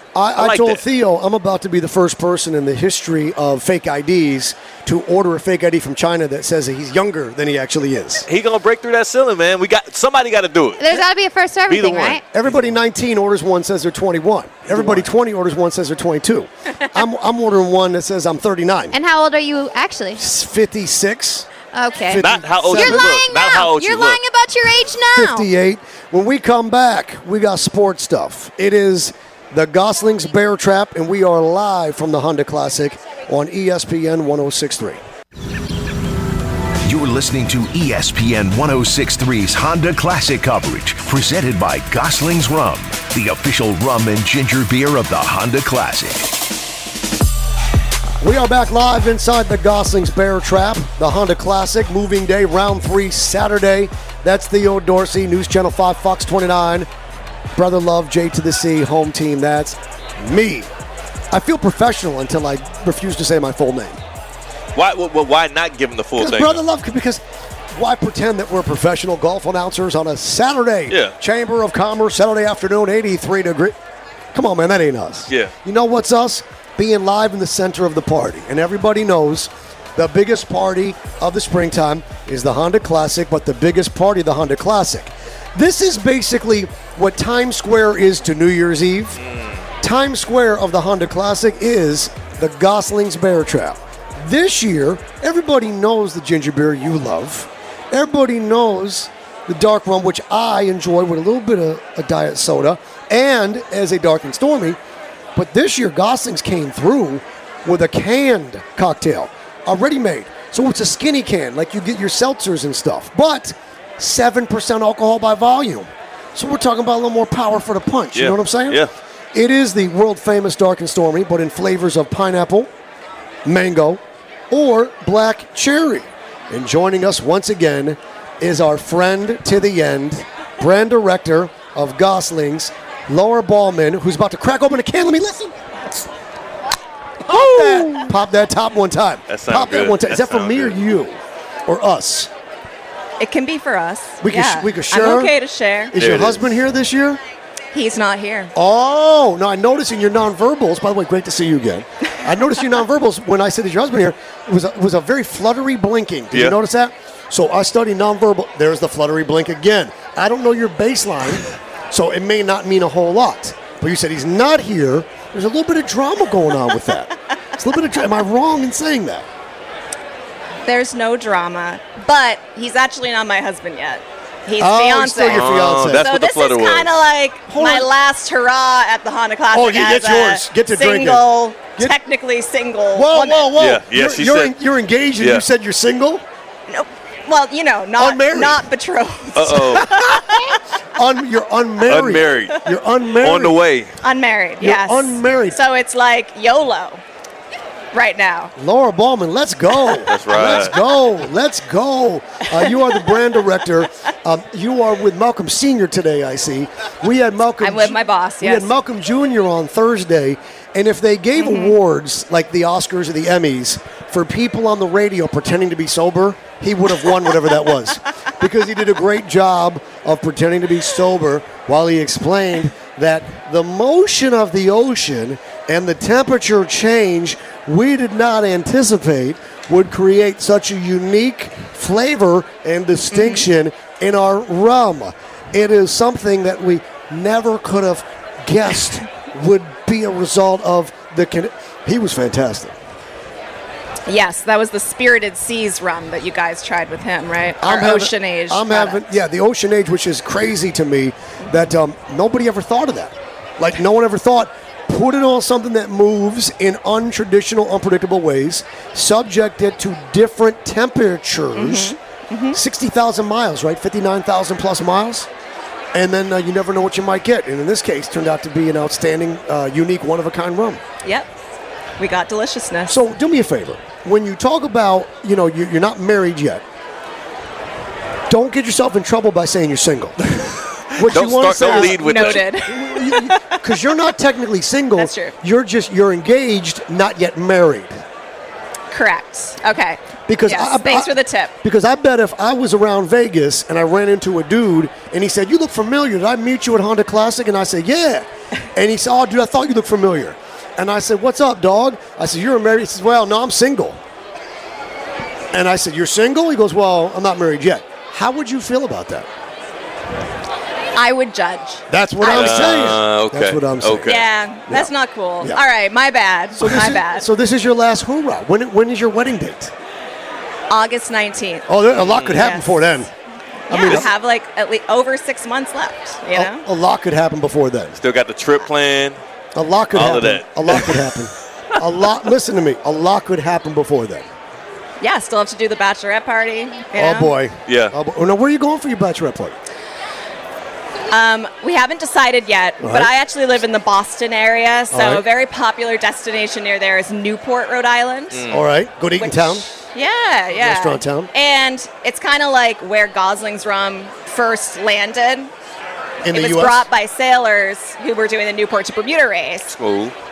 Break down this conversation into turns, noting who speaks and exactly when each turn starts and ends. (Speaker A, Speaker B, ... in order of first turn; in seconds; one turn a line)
Speaker A: 0.1-8.2
Speaker B: 0.4-0.8
Speaker B: 8.3-11.1
Speaker C: 10.8-12.2
Speaker B: 11.7-12.2
Speaker A: 12.3-18.9
Speaker B: 14.7-15.0
Speaker C: 18.9-20.2
Speaker A: 20.2-21.5
Speaker C: 21.7-25.5
Speaker A: 22.1-23.1
Speaker B: 22.1-24.2
Speaker A: 25.1-35.0
Speaker D: 36.8-46.3
Speaker A: 48.2-56.9
Speaker A: 57.5-60.7
Speaker A: 61.3-64.0
Speaker B: 64.7-66.6
Speaker A: 66.2-67.2
Speaker A: 67.7-73.8
Speaker B: 70.9-71.1
Speaker A: 74.3-89.2
Speaker B: 89.2-89.6
Speaker A: 89.8-104.8
Speaker A: 105.3-122.7
Speaker B: 118.1-118.9
Speaker A: 123.4-135.8
Speaker A: 137.2-142.3
Speaker B: 139.3-140.8
Speaker E: 143.2-145.9
Speaker A: 144.2-145.3
Speaker A: 145.9-147.2
Speaker B: 145.9-146.5
Speaker E: 147.7-148.5
Speaker A: 148.5-169.2
Speaker E: 170.7-183.6
Speaker A: 174.6-176.1
Speaker B: 175.3-177.0
Speaker A: 177.5-177.9
Speaker A: 179.5-181.9
Speaker A: 182.9-186.2
Speaker B: 183.6-184.6
Speaker B: 185.2-185.4
Speaker E: 186.7-190.6
Speaker A: 188.0-188.7
Speaker B: 189.3-190.0
Speaker A: 189.6-190.4
Speaker A: 190.9-193.6
Speaker B: 191.8-192.6
Speaker B: 193.2-194.0
Speaker E: 194.0-197.0
Speaker A: 194.6-195.6
Speaker E: 197.9-198.5
Speaker A: 198.6-242.7
Speaker B: 200.1-200.8
Speaker E: 202.6-203.2
Speaker E: 207.6-208.7
Speaker E: 211.3-211.8
Speaker E: 233.1-233.4
Speaker E: 244.1-249.0
Speaker A: 247.6-261.9
Speaker E: 261.5-262.6
Speaker A: 262.5-265.3
Speaker A: 265.9-270.8
Speaker E: 271.0-271.3
Speaker E: 272.0-272.9
Speaker A: 272.9-276.6
Speaker A: 278.3-280.2
Speaker A: 280.9-288.0
Speaker B: 281.0-282.5
Speaker E: 281.6-283.9
Speaker E: 284.9-285.3
Speaker E: 288.9-291.5
Speaker A: 290.3-304.0
Speaker A: 305.5-309.3
Speaker E: 310.9-312.7
Speaker A: 311.9-314.9
Speaker B: 312.2-314.3
Speaker E: 314.0-317.2
Speaker A: 316.6-319.7
Speaker E: 320.7-321.7
Speaker A: 321.7-323.1
Speaker B: 322.0-322.4
Speaker E: 322.3-322.9
Speaker E: 323.7-326.6
Speaker A: 323.7-324.1
Speaker A: 326.3-328.0
Speaker B: 328.0-329.2
Speaker A: 329.5-334.3
Speaker B: 329.9-331.0
Speaker E: 335.0-337.3
Speaker A: 336.9-339.6
Speaker B: 337.6-337.9
Speaker E: 341.1-348.4
Speaker A: 342.8-343.1
Speaker A: 344.9-345.2
Speaker B: 348.3-348.6
Speaker A: 348.5-349.7
Speaker E: 349.2-355.5
Speaker A: 350.6-351.3
Speaker A: 356.2-356.9
Speaker E: 356.3-359.7
Speaker B: 359.7-360.1